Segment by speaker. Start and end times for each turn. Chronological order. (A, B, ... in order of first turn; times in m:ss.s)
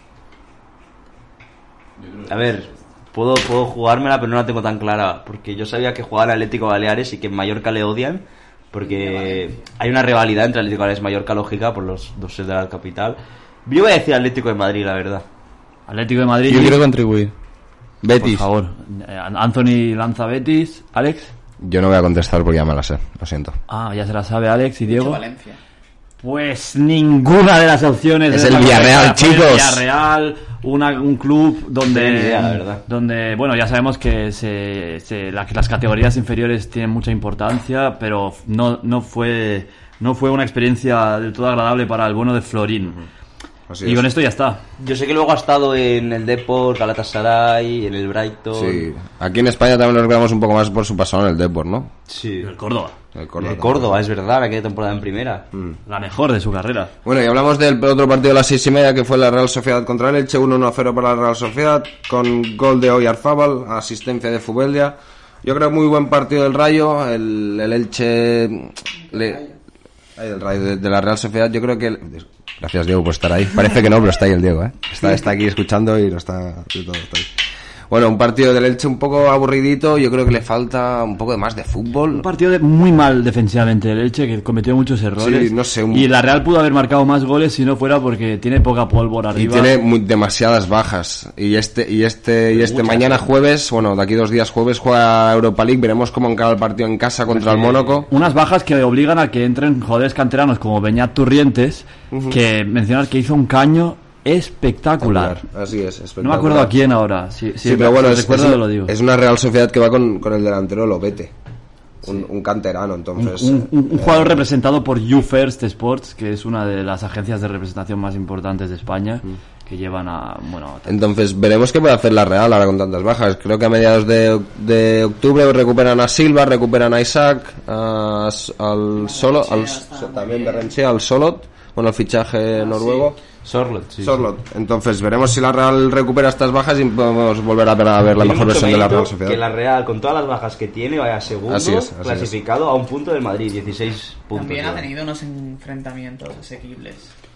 0:02.3-0:15.2 A
0:15.9-0:16.8 B
0:16.5-0:17.3 C
0:18.0-0:18.5 C
0:18.1-0:21.3 B
0:21.6-0:23.6 C
0:23.7-0:25.2 B
0:24.9-0:25.6 D
0:26.2-0:43.0 B
0:28.3-0:29.8 C
0:31.9-0:32.8 A
0:43.7-0:44.1 C
0:43.8-0:44.6 B
0:44.8-0:48.9 A
0:48.5-0:51.9 C
0:52.1-0:52.5 A
0:52.4-0:53.0 B
0:53.2-0:53.9 C
0:53.4-0:55.5 A
0:55.9-0:56.9 B
0:57.0-1:09.5 C
1:10.2-1:17.3 C
1:17.9-1:22.2 C
1:22.1-1:29.7 B
1:25.2-1:26.1 C
1:29.3-1:38.1 C
1:32.6-1:33.2 B
1:38.1-1:45.4 B
1:42.1-1:42.4 C
1:45.0-1:46.8 C
1:46.2-1:48.9 B
1:47.6-1:51.3 C
1:52.0-1:54.4 C
1:53.2-2:00.9 B
2:00.9-2:13.2 C
2:09.0-2:10.7 D
2:12.7-2:14.3 A
2:14.0-2:19.4 C
2:18.2-2:24.9 A
2:21.5-2:22.4 C
2:24.3-2:27.1 D